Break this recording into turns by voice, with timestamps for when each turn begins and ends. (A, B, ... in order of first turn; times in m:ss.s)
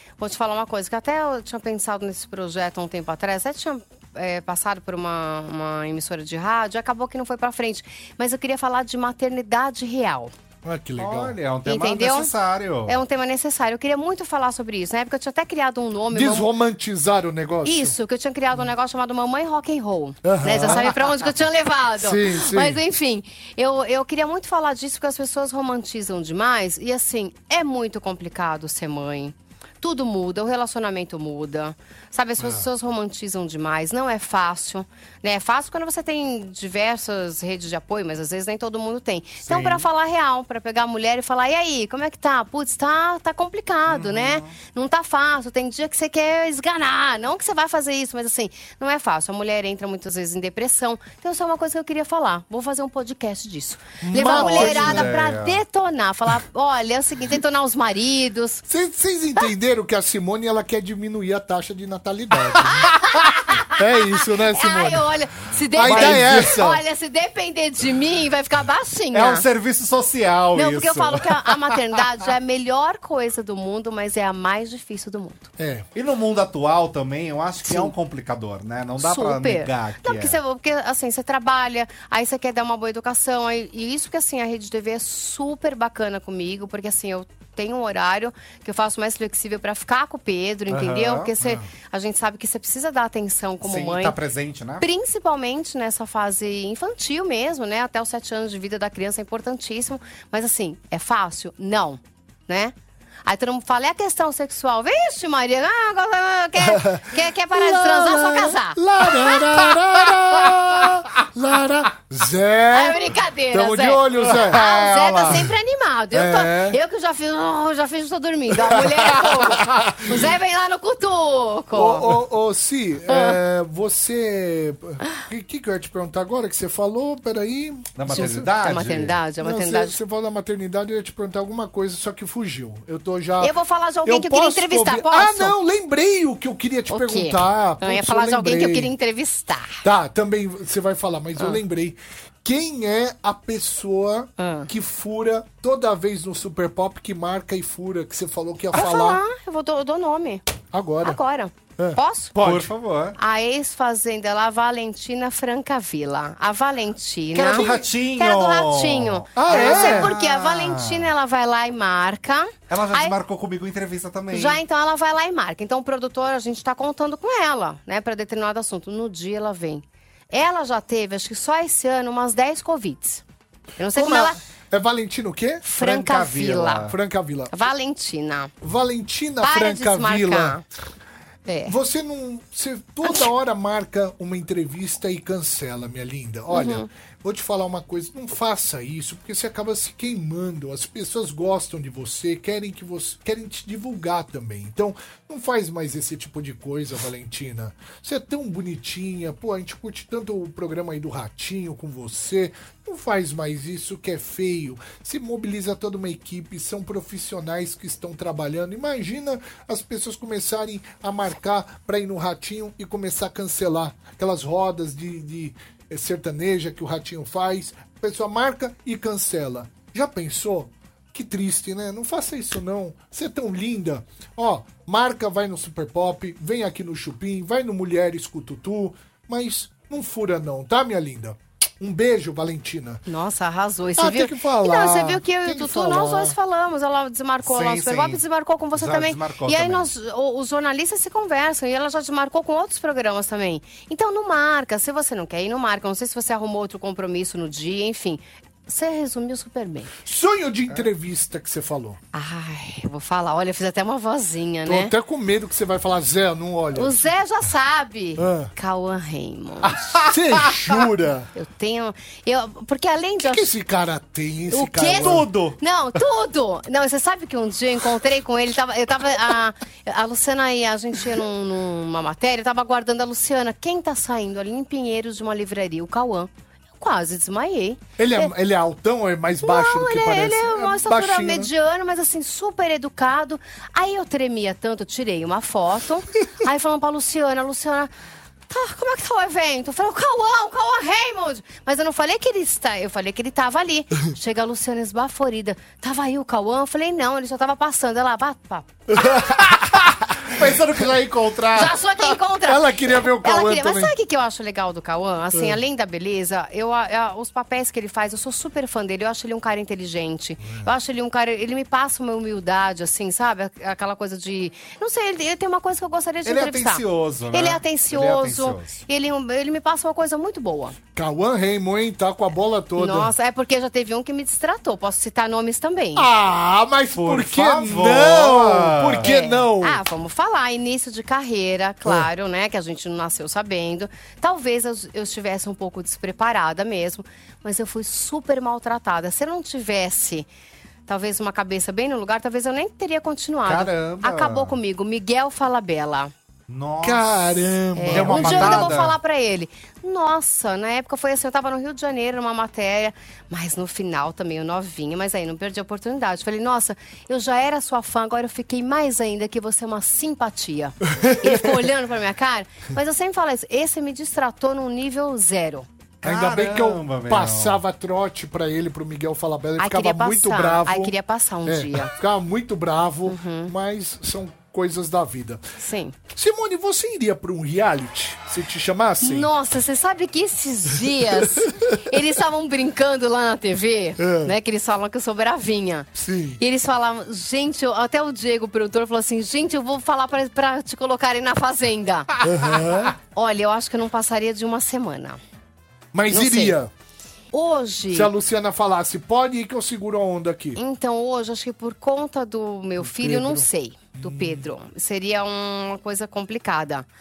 0:00.2-0:10.3 A
0:10.6-0:11.4 B
0:11.0-0:13.0 C
0:11.6-0:12.3 A
0:12.9-0:16.5 A
0:16.1-0:18.0 B
0:17.6-0:58.6 A
0:20.2-0:21.1 B
0:22.0-0:22.8 B
0:32.4-0:32.7 B
0:39.4-0:39.8 C
0:43.9-0:44.6 C
0:54.0-0:55.1 B
0:54.2-0:55.6 C
0:58.7-1:02.9 B
1:02.6-1:09.5 A
1:03.7-1:05.1 B
1:05.7-1:06.8 B
1:05.8-1:06.4 C
1:09.1-1:11.8 C
1:10.5-1:15.5 A
1:15.6-1:15.9 B
1:16.0-1:20.4 C
1:19.0-1:34.2 A
1:30.7-1:31.3 C
1:31.4-1:31.7 B
1:33.6-1:34.8 C
1:34.8-1:42.7 A
1:43.2-1:49.6 A
1:46.6-1:54.6 B
1:52.7-2:02.2 A
1:54.3-1:55.5 C
1:55.2-1:55.5 B
1:56.1-1:56.8 B
1:58.7-2:00.2 B
2:01.7-2:08.5 B
2:03.1-2:03.4 A
2:08.0-2:09.2 C
2:08.1-2:10.0 A
2:09.4-2:18.9 B
2:13.4-2:15.6 A
2:16.9-2:19.8 A
2:19.8-2:29.2 B
2:24.4-2:24.7 A
2:28.7-2:30.4 A
2:30.7-2:31.2 B
2:31.0-2:32.4 A
2:31.8-2:32.7 B
2:32.4-2:33.2 C
2:33.2-2:43.2 A
2:37.3-2:41.1 C
2:39.4-2:40.2 B
2:42.7-2:44.6 C
2:44.3-2:53.2 A
2:53.8-2:54.4 A
2:53.9-2:55.8 B
2:55.6-2:56.9 A
2:55.8-2:57.0 C
2:56.8-2:57.5 B
2:57.5-2:58.5 A
2:58.6-3:00.6 B
2:59.4-3:00.6 A
3:01.4-3:01.8 A
3:01.7-3:53.0 B
3:06.5-3:06.9 A
3:53.1-4:09.9 A
3:54.0-3:56.4 B
3:57.4-3:59.9 C
4:10.0-4:12.0 B
4:12.1-4:14.9 A
4:14.6-4:17.1 B
4:16.8-4:20.0 A
4:18.2-4:18.5 B
4:19.6-4:20.1 C
4:20.1-4:21.3 B
4:21.4-4:23.5 A
4:23.2-4:25.3 B
4:24.5-4:38.3 A
4:25.0-4:25.6 C
4:38.0-4:41.5 B
4:39.4-4:47.9 A
4:48.5-4:58.8 A
4:58.9-5:00.6 B
4:59.0-5:01.8 C
5:01.5-5:20.8 A
5:02.4-5:04.0 B
5:05.3-5:05.6 B
5:10.4-5:10.7 B
5:16.2-5:18.8 C
5:21.0-5:23.1 B
5:22.8-5:26.1 A
5:26.0-5:29.8 B
5:27.0-5:29.1 C
5:29.0-5:40.3 A
5:40.9-5:46.1 A
5:43.5-5:44.6 C
5:46.5-5:47.3 C
5:46.8-5:48.8 B
5:47.8-6:05.7 A
5:47.9-5:49.0 C
6:01.0-6:01.4 B
6:06.0-6:15.4 B
6:06.0-6:07.6 C
6:09.6-6:11.9 A
6:13.1-6:13.5 A
6:15.6-6:16.0 A
6:16.1-6:19.3 B
6:19.0-6:32.1 A
6:24.0-6:24.3 B
6:26.0-6:26.4 B
6:32.2-6:33.0 B
6:33.0-6:35.2 A
6:35.9-6:36.7 B
6:36.1-6:36.6 A
6:37.3-6:38.1 A
6:37.9-6:40.6 B
6:40.6-6:46.9 A
6:42.8-6:44.5 B